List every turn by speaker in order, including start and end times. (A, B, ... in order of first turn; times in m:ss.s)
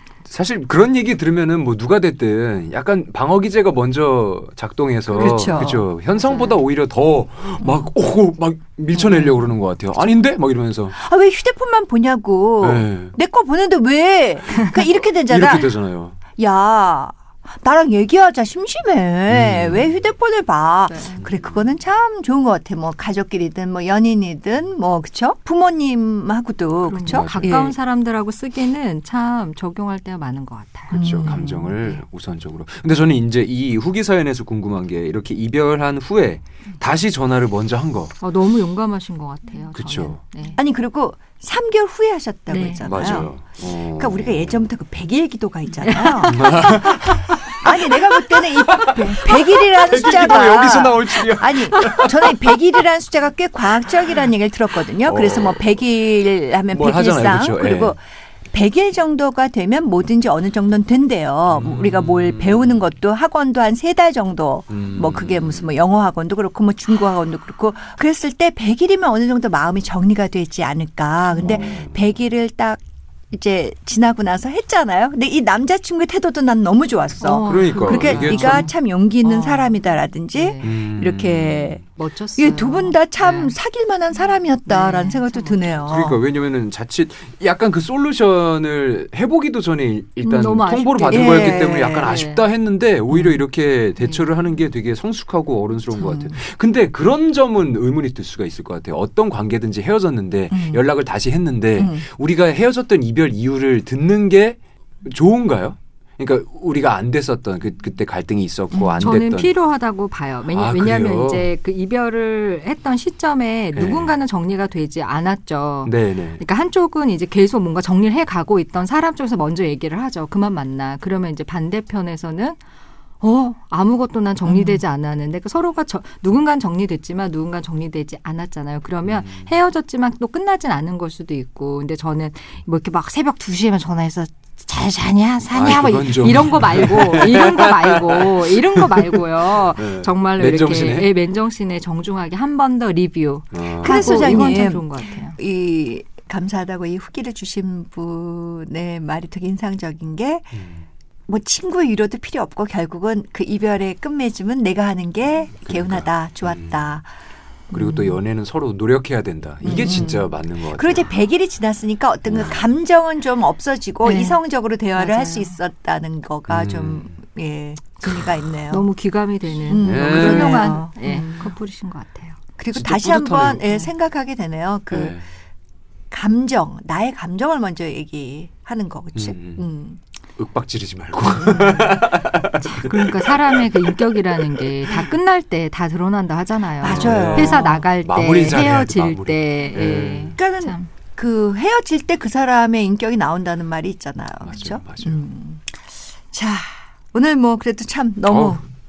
0:00.2-0:11.0 A
0:05.1-0:05.8 B
0:05.2-0:06.6 C
0:07.6-0:07.9 B
0:08.9-0:09.5 B
0:10.9-0:15.7 B
0:12.6-0:13.1 A
0:15.3-0:16.2 A
0:16.4-0:27.7 B
0:19.3-0:19.9 A
0:20.9-0:21.2 C
0:21.2-0:21.7 A
0:26.8-0:32.0 C
0:27.0-0:27.7 A
0:30.9-0:38.1 A
0:30.9-0:31.7 B
0:38.2-0:40.6 C
0:39.7-0:40.2 A
0:40.6-1:12.8 B
0:42.5-0:43.2 C
0:42.8-0:44.7 A
0:45.8-0:46.8 C
0:46.3-0:47.6 A
0:48.6-0:52.4 A
0:55.0-0:55.6 A
0:56.7-0:57.9 A
1:01.5-1:02.8 A
1:04.7-1:05.7 A
1:11.4-1:12.0 A
1:13.3-1:21.8 B
1:17.2-1:20.7 C
1:17.4-1:18.7 A
1:20.6-1:21.8 A
1:21.9-1:23.5 C
1:22.4-1:26.2 B
1:24.2-1:25.8 C
1:25.9-1:49.5 A
1:30.2-1:32.4 C
1:31.1-1:32.2 B
1:33.1-1:33.4 B
1:34.0-1:34.4 C
1:36.0-1:36.4 B
1:40.5-1:40.8 B
1:41.8-1:42.0 B
1:48.7-1:49.1 B
1:49.0-2:02.6 C
1:50.5-1:51.5 A
1:53.7-1:54.2 A
1:55.8-1:56.4 A
2:03.2-2:25.4 C
2:04.4-2:04.8 B
2:09.0-2:09.6 A
2:15.5-2:21.1 A
2:23.5-2:24.6 A
2:23.8-2:30.5 B
2:30.5-2:30.8 A
2:31.3-2:37.1 B
2:35.6-2:36.9 A
2:37.7-2:38.2 B
2:37.7-2:41.0 A
2:39.6-2:48.9 B
2:42.3-2:42.6 A
2:44.0-2:44.4 C
2:44.9-2:45.5 C
2:46.5-2:47.1 A
2:48.7-2:52.4 C
2:49.7-2:51.6 B
2:49.8-2:50.8 A
2:52.6-2:55.2 B
2:52.7-2:53.7 A
2:54.9-2:55.2 A
2:56.1-3:00.0 B
2:59.1-2:59.6 A
3:00.4-3:05.0 A
3:01.2-3:02.1 B
3:02.6-3:10.9 C
3:06.8-3:07.9 B
3:06.8-3:10.4 A
3:10.4-3:18.6 B
3:14.4-3:15.2 A
3:18.3-3:18.6 A